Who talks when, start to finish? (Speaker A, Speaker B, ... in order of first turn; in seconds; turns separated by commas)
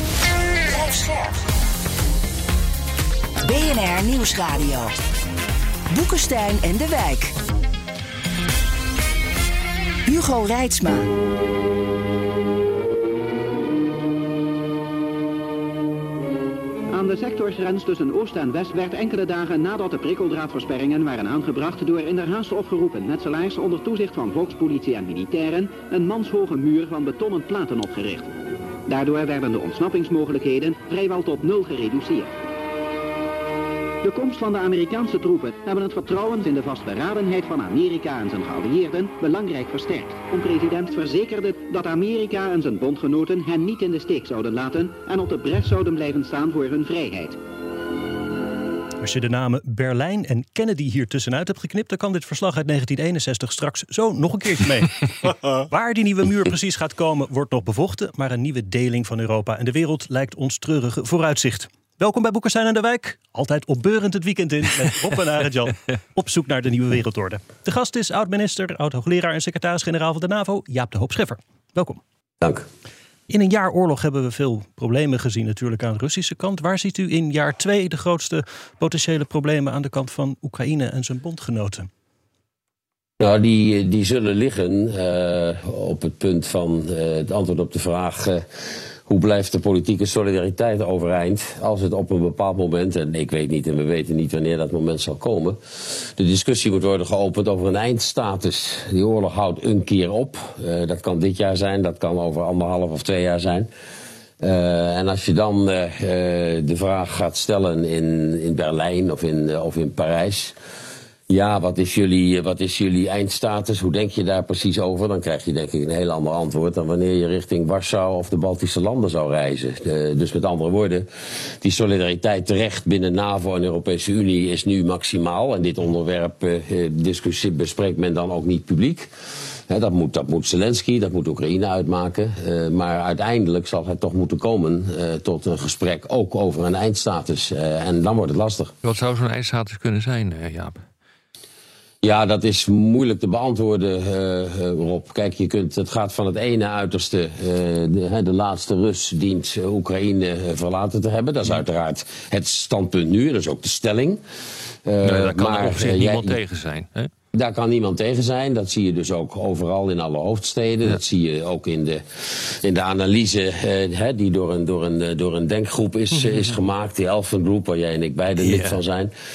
Speaker A: 0.7-1.4, Speaker A: 3.4-4.9, Speaker A: 5.9-7.3, Speaker A: 10.1-11.1, Speaker B: 16.9-32.4, Speaker B: 34.0-47.4, Speaker C: 49.0-72.0, Speaker D: 72.4-72.7, Speaker C: 73.3-81.9, Speaker D: 83.2-88.4, Speaker D: 89.1-103.7, Speaker D: 104.4-110.5, Speaker D: 111.3-121.1, Speaker D: 121.6-129.1, Speaker D: 129.7-138.7, Speaker E: 138.8-140.8, Speaker D: 142.0-154.2, Speaker D: 154.8-156.4, Speaker E: 155.0-157.1, Speaker D: 157.3-169.1, Speaker E: 166.1-166.5, Speaker E: 168.4-168.8